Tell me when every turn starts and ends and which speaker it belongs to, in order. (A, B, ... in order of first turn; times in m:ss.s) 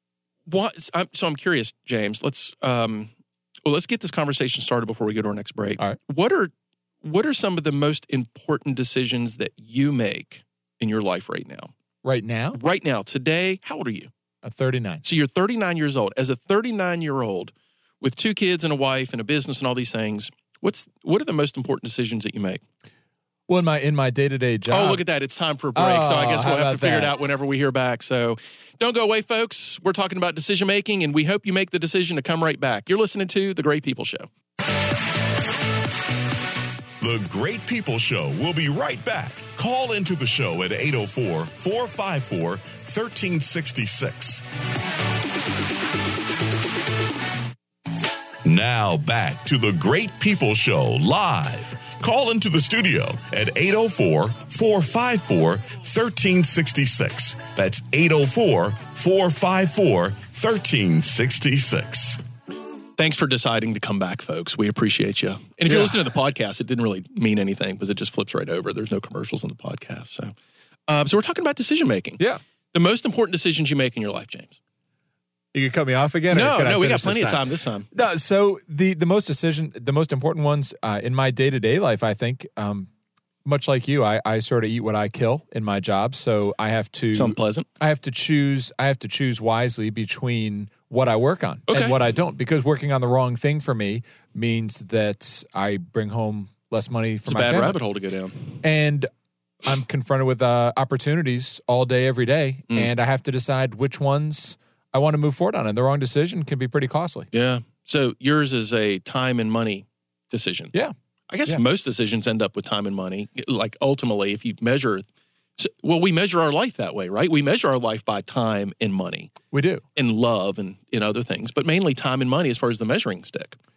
0:00.4-0:03.1 A
0:03.6-0:11.7 A
0:12.0-0:12.6 B
0:12.6-0:14.1 A
0:14.4-0:15.0 B
0:15.0-0:22.6 A
0:23.5-0:25.0 B
0:24.7-0:34.3 A
0:25.7-0:27.2 B
0:37.0-0:44.4 C
0:48.4-1:02.2 C
1:03.0-1:10.3 A
1:05.6-1:06.0 B
1:10.9-1:12.2 A
1:12.7-1:14.6 A
1:15.5-1:22.9 B
1:16.3-1:17.9 A
1:23.4-1:37.8 B
1:27.1-1:27.7 A
1:31.7-1:32.0 A
1:37.2-1:38.6 A
1:38.6-1:39.1 B
1:39.6-1:47.3 B
1:47.3-1:50.7 A
1:51.3-1:55.0 A
1:55.6-1:59.3 A
1:59.5-1:59.8 B
1:59.9-2:03.6 A